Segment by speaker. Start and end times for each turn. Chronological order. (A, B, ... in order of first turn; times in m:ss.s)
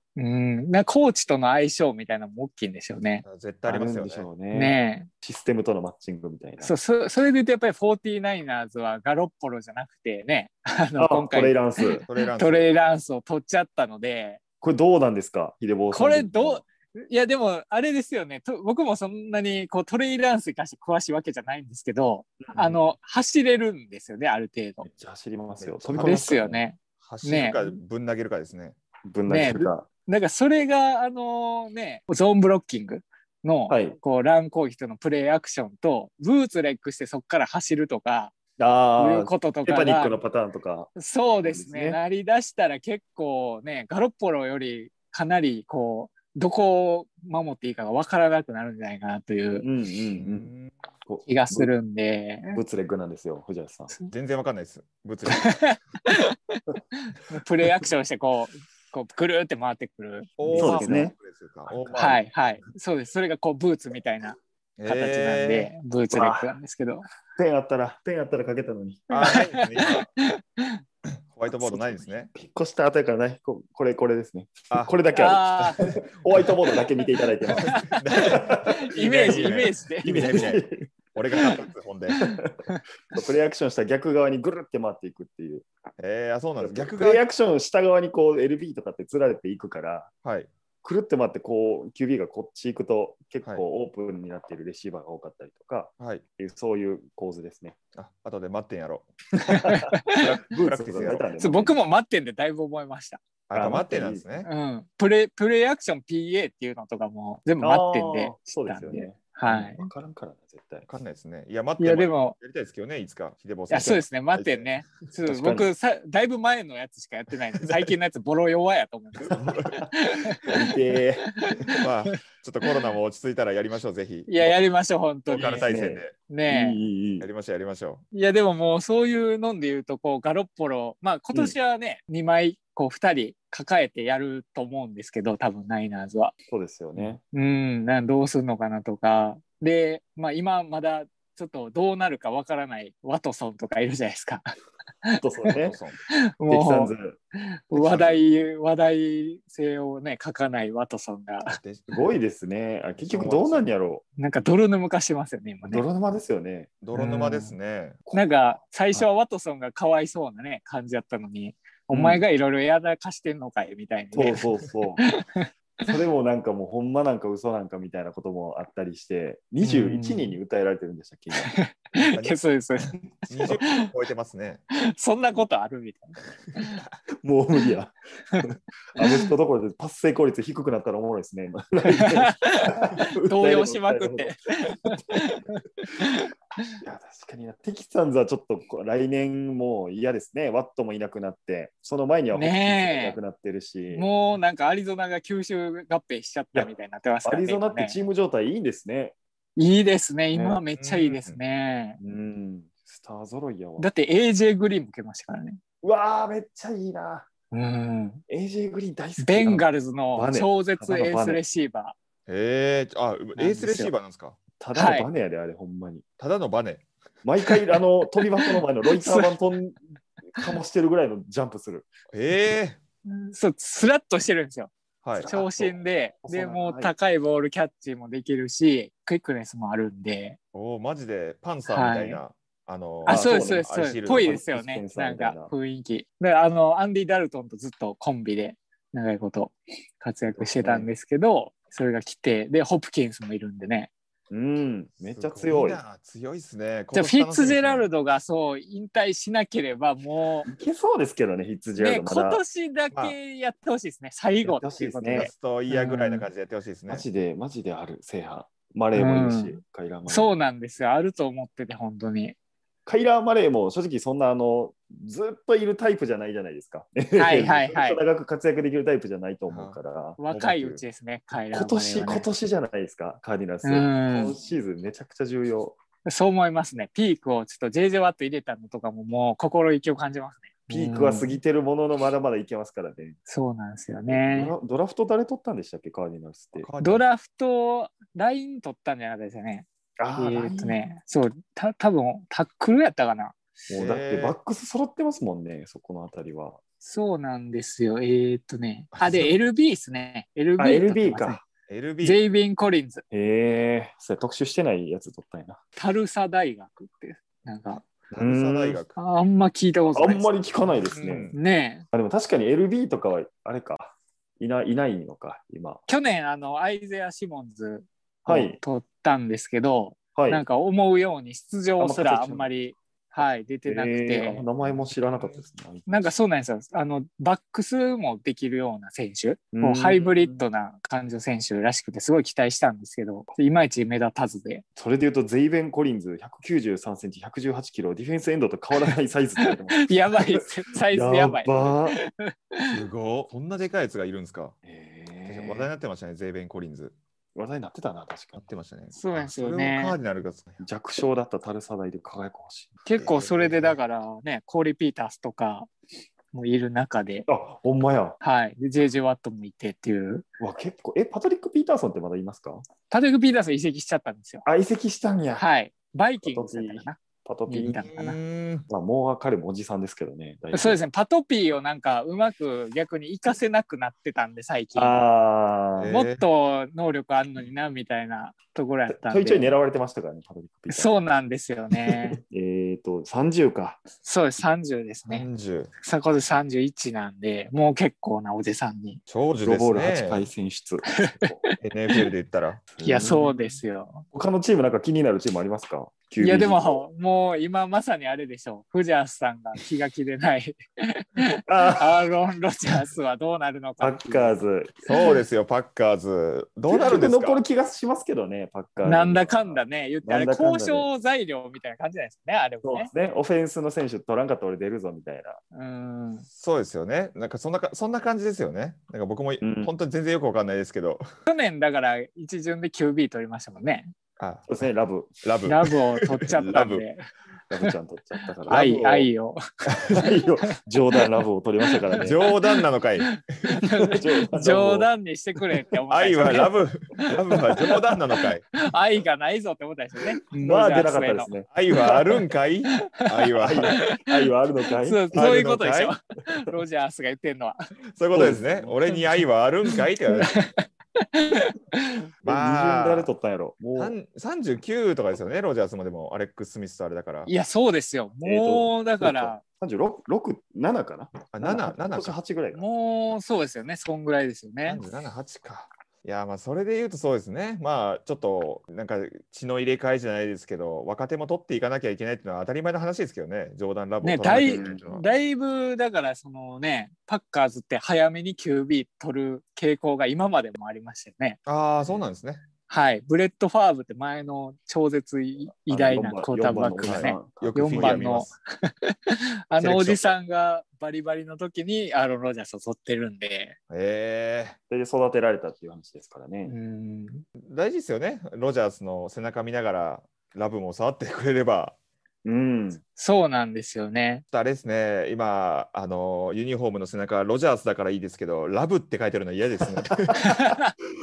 0:00.2-0:03.2 A
0:03.2-0:04.3 B
0:03.6-0:06.7 C
0:04.5-0:05.1 A
0:06.6-0:14.4 A
0:11.0-0:12.0 C
0:12.0-0:12.7 B
0:14.6-0:16.6 C
0:15.9-0:24.8 A
0:22.4-0:22.8 C
0:24.8-0:26.6 C
0:25.6-0:26.3 B
0:26.0-0:27.6 A
0:27.0-0:28.8 B
0:29.1-0:29.9 C
0:29.3-0:38.3 A
0:33.7-0:34.0 C
0:38.6-0:42.0 C
0:39.0-0:40.2 A
0:41.0-0:49.7 A
0:49.6-0:50.5 C
0:50.2-0:50.8 B
0:51.0-0:51.7 C
0:51.2-0:52.6 A
0:52.5-0:53.9 C
0:54.1-0:55.5 B
0:55.3-1:01.0 A
1:00.4-1:02.2 B
1:00.5-1:01.1 C
1:01.7-1:02.0 C
1:01.9-1:07.1 A
1:04.8-1:05.7 B
1:06.1-1:06.5 C
1:07.4-1:09.3 C
1:09.1-1:10.1 B
1:09.1-1:10.8 A
1:11.1-1:12.3 B
1:11.6-1:12.0 A
1:11.8-1:18.7 C
1:14.7-1:15.0 B
1:15.1-1:15.8 A
1:15.5-1:16.0 B
1:17.5-1:18.0 A
1:17.6-1:22.2 B
1:18.6-1:20.3 A
1:20.0-1:20.9 C
1:22.1-1:22.5 C
1:22.2-1:22.8 A
1:23.1-1:25.6 C
1:26.0-1:27.2 B
1:26.6-1:30.1 C
1:30.2-1:30.5 B
1:30.8-1:37.8 C
1:37.9-1:39.1 B
1:39.5-1:40.0 A
1:39.6-1:39.9 C
1:40.1-1:41.3 B
1:40.6-1:41.8 C
1:41.4-1:43.2 A
1:43.5-1:44.5 B
1:43.5-1:44.2 C
1:44.4-1:49.8 A
1:47.6-1:50.9 C
1:49.4-1:49.8 B
1:50.9-1:54.8 B
1:51.8-1:52.4 A
1:53.7-2:00.5 A
1:55.2-1:55.7 C
1:57.6-1:57.9 B
1:59.2-1:59.8 B
2:00.5-2:01.2 C
2:01.4-2:02.7 A
2:01.8-2:04.5 B
2:04.3-2:05.7 A
2:05.3-2:07.3 C
2:05.3-2:06.1 B
2:06.3-2:06.8 A
2:07.2-2:08.0 B
2:08.1-2:16.3 A
2:16.5-2:17.2 C
2:17.3-2:24.4 A
2:25.0-2:25.5 A
2:25.2-2:25.8 C
2:25.5-2:26.0 B
2:26.4-2:26.9 A
2:26.5-2:27.2 C
2:27.7-2:31.6 A
2:27.7-2:28.2 B
2:31.4-2:32.0 B
2:31.9-2:34.0 C
2:33.0-2:33.7 B
2:34.2-2:35.8 A
2:35.6-2:36.7 C
2:36.8-2:38.0 B
2:36.9-2:37.6 A
2:38.0-2:38.3 C
2:38.1-2:44.4 A
2:41.9-2:42.2 C
2:44.1-2:45.0 C
2:45.0-2:45.9 A
2:45.8-2:51.5 C
2:49.6-2:50.4 A
2:51.4-2:53.9 A
2:52.0-2:54.6 B
2:54.7-2:56.8 A
2:57.2-3:04.4 C
2:59.0-2:59.3 A
3:01.9-3:06.6 A
3:04.9-3:05.2 C
3:06.8-3:14.1 C
3:12.3-3:13.2 A
3:13.9-3:18.0 A
3:17.2-3:19.1 C
3:19.6-3:22.0 A
3:20.3-3:20.6 C
3:20.8-3:21.4 B
3:22.0-3:23.9 C
3:23.8-3:25.6 A
3:25.8-3:27.3 C
3:27.5-3:28.2 A
3:28.3-3:31.4 C
3:29.2-3:32.0 A
3:32.3-3:34.4 B
3:33.4-3:33.9 A
3:34.6-3:36.0 C
3:34.7-3:35.1 A
3:36.2-3:36.8 B
3:37.2-3:39.8 C
3:38.4-3:39.4 A
3:40.3-3:41.9 C
3:42.1-3:42.8 B
3:43.0-3:50.4 A
3:45.0-3:45.3 B
3:45.1-3:46.9 C
3:50.5-3:54.4 B
3:51.6-3:52.2 A
3:53.0-4:03.9 A
3:53.0-3:55.5 C
4:00.3-4:00.9 C
4:04.3-4:05.8 C
4:05.1-4:07.9 B
4:06.9-4:10.5 A
4:10.5-4:12.4 C
4:11.8-4:16.2 A
4:12.9-4:13.2 B
4:14.4-4:15.3 C
4:15.1-4:17.0 B
4:16.9-4:20.3 C
4:18.9-4:22.4 A
4:22.8-4:30.2 C
4:27.2-4:28.0 A
4:29.5-4:29.8 B
4:30.2-4:32.3 A
4:30.3-4:30.8 B
4:31.5-4:35.8 C
4:33.6-4:34.3 A
4:36.0-4:41.4 A
4:40.7-4:43.2 C
4:43.3-4:44.5 A
4:44.1-4:46.7 C
4:46.6-4:47.0 B
4:46.8-4:53.4 A
4:50.0-4:50.8 C
4:53.7-4:56.6 C
4:53.7-4:54.4 B
4:56.8-5:01.4 A
4:58.9-4:59.4 B
5:00.6-5:01.4 C
5:01.7-5:02.2 B
5:02.0-5:03.0 A
5:03.1-5:05.6 C
5:05.8-5:07.8 A
5:07.7-5:09.0 B
5:08.1-5:08.8 C
5:09.0-5:10.3 A
5:09.9-5:11.3 C
5:10.6-5:11.4 B
5:10.9-5:11.8 A
5:11.9-5:15.8 C
5:15.9-5:24.4 A
5:18.2-5:18.6 C
5:20.1-5:20.4 C
5:21.8-5:22.5 C
5:23.1-5:26.1 C
5:25.9-5:34.6 A
5:29.5-5:30.4 C
5:34.8-5:40.2 C
5:39.5-5:42.0 A
5:40.9-5:42.0 C
5:42.7-5:44.5 B
5:44.6-5:45.7 C
5:45.2-5:46.9 B
5:47.3-5:48.4 C
5:48.4-5:50.6 B
5:48.9-5:50.0 A
5:50.6-5:53.6 C
5:52.8-5:55.7 A
5:53.0-5:53.7 B
5:56.3-5:57.3 A
5:57.3-5:58.2 C
5:58.2-6:00.2 A
6:00.4-6:02.6 C
6:02.9-6:04.4 A
6:04.4-6:05.4 C
6:05.4-6:08.2 A
6:06.2-6:07.8 C
6:07.7-6:08.6 B
6:08.7-6:10.8 C
6:10.5-6:15.0 A
6:14.7-6:15.9 C
6:15.8-6:16.2 B
6:15.9-6:19.6 A
6:18.9-6:20.9 C
6:20.7-6:22.2 A
6:21.8-6:23.8 C
6:24.0-6:25.3 A
6:25.1-6:25.7 B
6:25.8-6:29.0 A
6:29.1-6:30.3 B
6:29.4-6:31.4 C
6:30.9-6:32.0 A
6:31.6-6:32.6 B
6:32.7-6:33.4 C
6:32.8-6:34.0 A
6:34.1-6:36.8 C
6:36.2-6:44.4 A
6:41.5-6:42.0 C
6:43.8-6:44.8 C
6:44.8-6:47.4 B
6:46.7-6:50.9 C
6:48.8-6:52.9 A
6:52.6-6:55.4 C
6:55.5-6:56.2 A
6:56.3-7:01.0 B
6:59.4-6:59.7 C
7:01.3-7:03.9 A
7:04.2-7:04.7 B
7:04.5-7:05.1 C
7:05.2-7:06.8 B
7:05.4-7:07.1 A
7:07.5-7:09.1 C
7:08.4-7:10.2 A
7:10.0-7:12.2 C
7:11.7-7:12.2 A
7:12.0-7:13.9 B
7:13.0-7:17.1 A
7:13.9-7:14.9 C
7:15.9-7:18.4 B
7:18.6-7:21.3 A
7:20.4-7:22.2 C
7:21.5-7:23.8 B
7:23.4-7:25.6 C
7:23.7-7:24.3 A
7:24.8-7:27.6 A
7:25.1-7:25.9 B
7:28.0-7:30.4 B
7:28.1-7:28.8 C
7:29.6-7:30.5 A
7:31.1-7:32.0 A
7:32.2-7:33.1 B
7:32.2-7:34.0 C
7:33.7-7:37.3 B
7:37.3-7:39.4 A
7:38.2-7:42.6 C
7:41.3-7:42.2 B
7:42.5-7:44.8 A
7:44.6-7:55.0 B
7:54.0-8:01.4 A
7:54.3-7:54.8 C
8:01.4-8:02.4 B
8:02.7-8:13.6 A
8:05.7-8:08.3 C
8:06.8-8:08.3 B
8:09.6-8:10.1 B
8:13.7-8:14.6 B
8:14.7-8:16.5 C
8:16.4-8:17.2 A
8:17.4-8:21.8 B
8:22.2-8:22.8 C
8:23.0-8:24.2 A
8:24.3-8:30.5 B
8:30.2-8:30.7 A